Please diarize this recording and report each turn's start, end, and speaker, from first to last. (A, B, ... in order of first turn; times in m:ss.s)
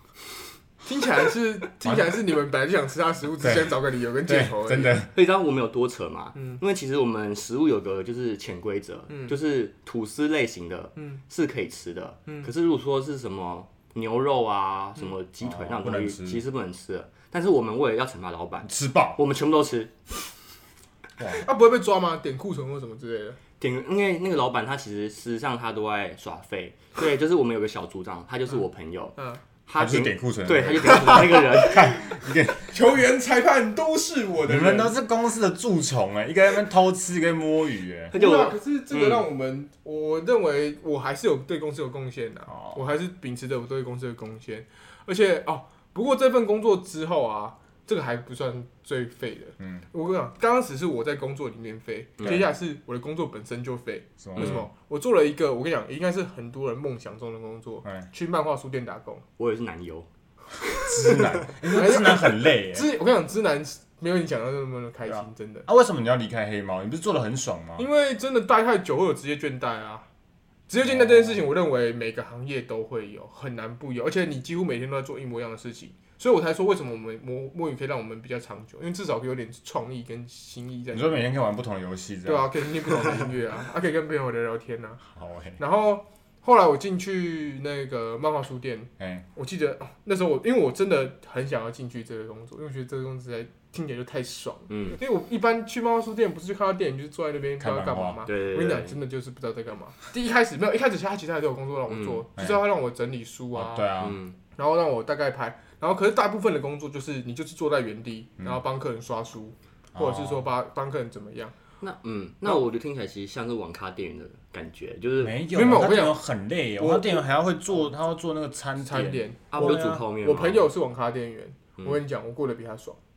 0:00.8-0:05.0 A
0:03.4-0:05.1 B
0:05.1-0:20.2 C
0:09.1-0:09.4 A
0:15.4-0:16.4 B
0:18.6-0:19.2 B
0:21.2-0:21.4 B
0:21.3-0:23.4 A
0:23.6-0:31.9 C
0:29.8-0:32.7 B
0:30.9-0:34.9 A
0:34.4-0:38.1 B
0:38.1-0:39.3 C
0:38.1-0:59.2 A
0:42.5-0:42.8 B
0:49.6-0:49.8 B
0:54.2-0:54.7 B
0:54.4-0:54.6 C
0:59.4-1:00.1 C
1:00.6-1:01.5 C
1:00.8-1:02.9 B
1:01.7-1:05.6 A
1:05.1-1:07.8 B
1:07.8-1:10.1 A
1:10.7-1:21.2 A
1:10.8-1:11.4 B
1:20.9-1:23.2 B
1:22.2-1:25.0 A
1:25.1-1:25.6 B
1:25.6-1:43.9 A
1:29.0-1:29.3 B
1:34.7-1:35.0 C
1:37.6-1:38.2 B
1:38.2-1:39.0 C
1:41.9-1:42.2 C
1:42.4-1:42.6 B
1:43.5-1:44.2 B
1:44.0-1:44.4 C
1:44.6-1:51.5 A
1:49.9-1:50.4 B
1:51.8-1:55.4 C
1:55.2-2:00.0 B
1:55.5-1:56.2 A
1:56.8-1:57.2 A
1:58.8-2:03.0 A
1:59.5-2:00.7 C